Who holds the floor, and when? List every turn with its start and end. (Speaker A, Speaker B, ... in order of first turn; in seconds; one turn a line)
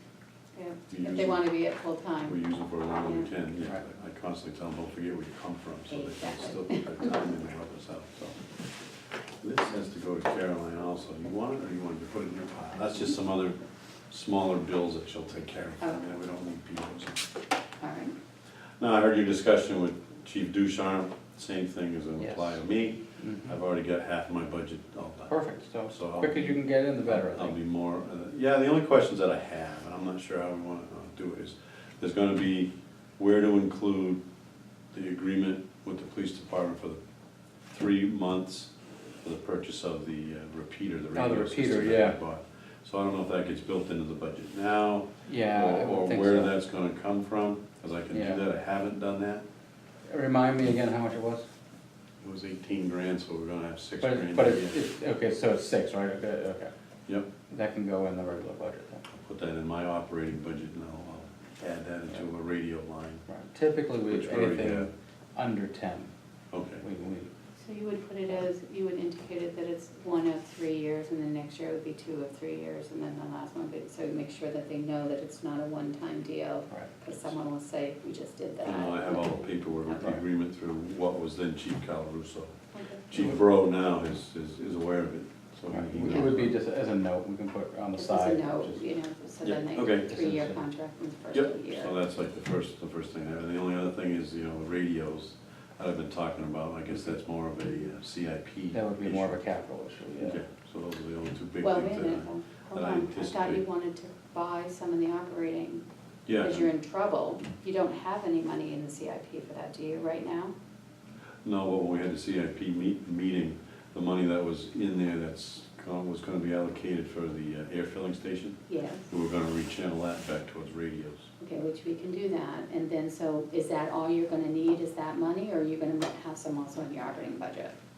Speaker A: 0.5-3.3
Speaker B: 0.9-1.5
Speaker B: 2.2-8.4
Speaker A: 5.9-7.1
Speaker B: 9.4-13.6
Speaker B: 14.1-17.2
Speaker A: 17.8-18.1
Speaker B: 18.8-25.4
Speaker C: 22.2-22.6
Speaker C: 23.2-23.5
Speaker C: 25.3-27.6
Speaker B: 25.9-26.5
Speaker B: 27.1-34.2
Speaker B: 34.9-37.0
Speaker B: 37.7-38.7
Speaker B: 39.2-49.4
Speaker C: 41.1-42.2
Speaker C: 45.2-46.5
Speaker C: 48.1-48.4
Speaker C: 50.1-51.5
Speaker B: 52.2-54.8
Speaker C: 54.0-56.7
Speaker C: 57.5-59.0
Speaker B: 59.1-63.2
Speaker C: 63.3-66.1
Speaker B: 64.1-64.9
Speaker B: 66.5-66.8
Speaker C: 66.8-67.3
Speaker A: 67.6-80.1
Speaker B: 78.6-82.6
Speaker A: 82.7-83.3
Speaker B: 83.1-86.6
Speaker C: 85.7-88.8
Speaker A: 86.0-86.3
Speaker A: 88.0-92.0
Speaker B: 89.4-90.2
Speaker C: 90.1-90.6
Speaker B: 91.3-99.4
Speaker C: 98.7-100.4
Speaker B: 100.2-103.6
Speaker A: 101.6-105.8
Speaker B: 106.3-106.7
Speaker A: 106.4-110.5
Speaker B: 111.4-121.3
Speaker A: 118.7-119.1
Speaker A: 121.4-127.7